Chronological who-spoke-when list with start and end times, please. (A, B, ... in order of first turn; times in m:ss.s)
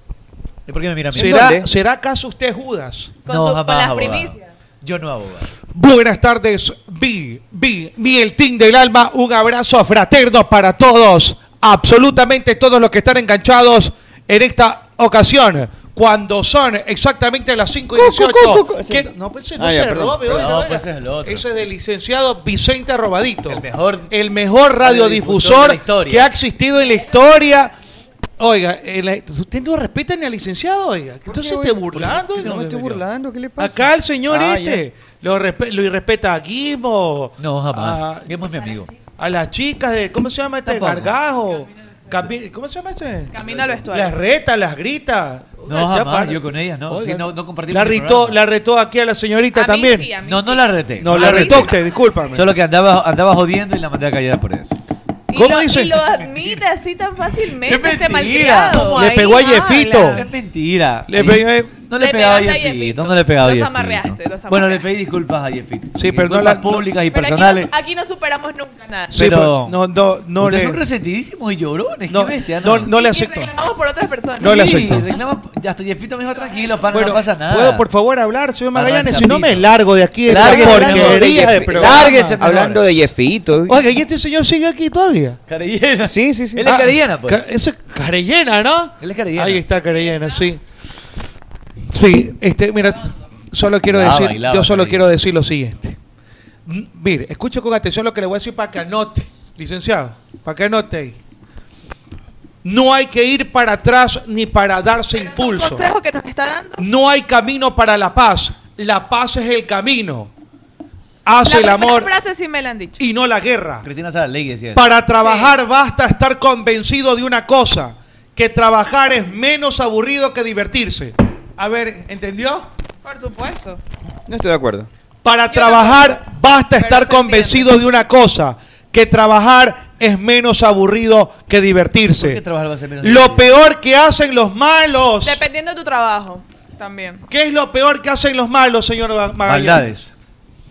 0:00.7-0:01.5 A
0:01.1-0:03.2 B
0:01.2-0:01.7 C
0:03.2-0:05.6 A
0:03.3-0:04.5 D
0:05.7-0:27.7 B
0:18.0-0:20.4 C
0:20.2-0:21.5 A
0:23.5-0:24.1 A
0:24.8-0:26.3 A
0:28.4-0:33.0 B
0:31.3-0:34.8 C
0:33.6-0:38.3 B
0:37.4-0:38.9 A
0:39.1-0:50.2 B
0:40.6-0:41.2 A
0:43.3-0:44.2 D
0:45.6-0:48.4 A
0:49.5-0:51.9 D
0:50.2-0:51.8 A
0:51.0-0:52.5 B
0:52.3-0:54.8 A
0:55.3-1:00.3 D
0:55.3-0:56.0 B
0:56.0-0:56.6 A
0:57.6-0:59.1 A
0:58.9-1:00.3 B
1:00.0-1:07.7 A
1:01.1-1:01.8 B
1:02.0-1:04.9 D
1:06.0-1:06.9 B
1:07.1-1:09.1 D
1:09.1-1:10.8 B
1:09.1-1:09.8 A
1:10.4-1:12.9 A
1:12.1-1:13.5 B
1:12.9-1:14.7 D
1:14.4-1:15.1 B
1:14.4-1:17.9 A
1:16.9-1:22.4 B
1:18.7-1:19.7 A
1:20.2-1:23.1 A
1:20.3-1:23.8 C
1:23.7-1:25.4 B
1:25.5-1:27.5 A
1:26.0-1:26.7 C
1:26.6-1:30.6 B
1:29.0-1:29.6 A
1:31.9-1:36.0 B
1:33.9-1:35.1 A
1:36.7-1:41.2 B
1:42.6-1:45.9 B
1:45.1-1:46.8 D
1:46.8-1:50.3 B
1:51.2-1:52.1 B
1:51.4-1:53.0 D
1:53.0-1:53.8 B
1:53.8-1:54.9 A
1:54.8-2:02.7 B
1:55.2-1:55.6 D
2:03.0-2:03.8 D
2:04.3-2:04.9 C
2:05.2-2:12.4 B
2:05.5-2:06.2 D
2:06.8-2:07.7 D
2:12.1-2:13.5 A
2:13.0-2:15.4 B
2:15.2-2:17.2 D
2:17.3-2:19.9 B
2:19.4-2:20.1 A